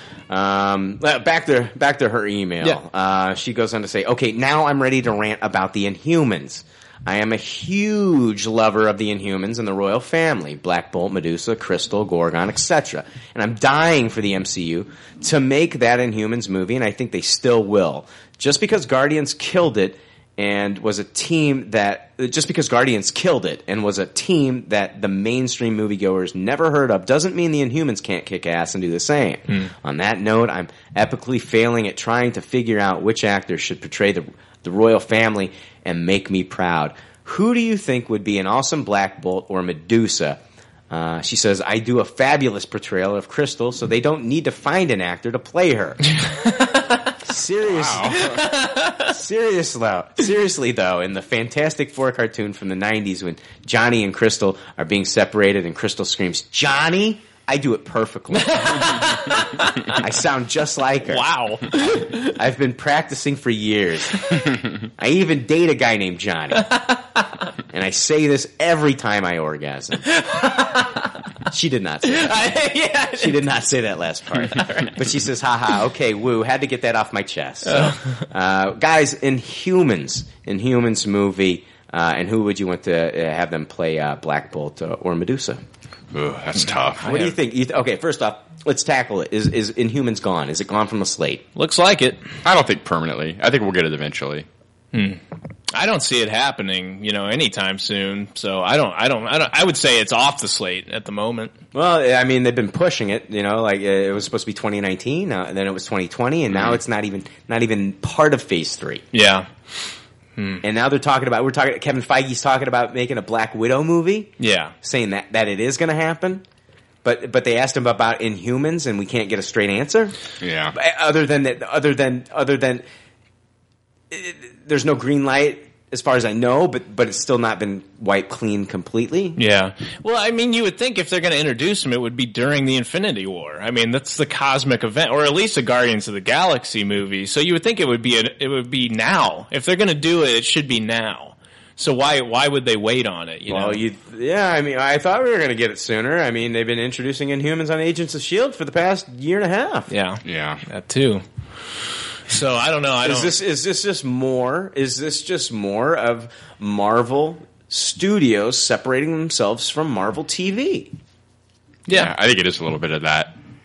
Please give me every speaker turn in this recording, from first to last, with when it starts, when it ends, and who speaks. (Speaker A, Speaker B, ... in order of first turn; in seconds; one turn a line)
Speaker A: 0.3-40.4
Speaker A: 40.9-46.0
Speaker B: 46.2-47.1
Speaker A: 47.2-48.2
Speaker C: 47.6-48.5
Speaker B: 48.1-49.1
Speaker A: 49.1-59.0
Speaker B: 58.3-60.0
Speaker A: 59.9-61.2
Speaker B: 61.1-62.4
Speaker A: 61.8-64.2
Speaker A: 65.0-66.7
Speaker B: 66.6-67.2
Speaker A: 67.7-70.1
Speaker B: 70.0-71.1
Speaker A: 71.5-72.5
Speaker B: 72.0-73.5
Speaker A: 73.2-85.6
Speaker B: 74.3-75.0
Speaker B: 77.7-78.2
Speaker C: 86.1-87.0
Speaker B: 87.0-87.4
Speaker A: 87.0-91.5
Speaker B: 91.6-92.2
Speaker C: 92.4-94.5
Speaker B: 94.9-95.2
Speaker B: 95.7-101.5
Speaker A: 101.7-109.0
Speaker C: 106.5-106.8
Speaker B: 109.1-109.5
Speaker B: 110.4-110.6
Speaker A: 110.6-114.3
Speaker B: 114.4-114.7
Speaker A: 114.8-116.4
Speaker A: 117.0-120.2
Speaker C: 120.4-120.8
Speaker A: 120.7-122.8
Speaker A: 124.1-129.4
Speaker B: 129.4-143.8
Speaker A: 143.5-149.9
Speaker B: 149.9-151.2
Speaker C: 150.2-150.6
Speaker B: 152.3-153.3
Speaker A: 153.0-160.9
Speaker B: 161.9-162.1
Speaker C: 161.9-163.4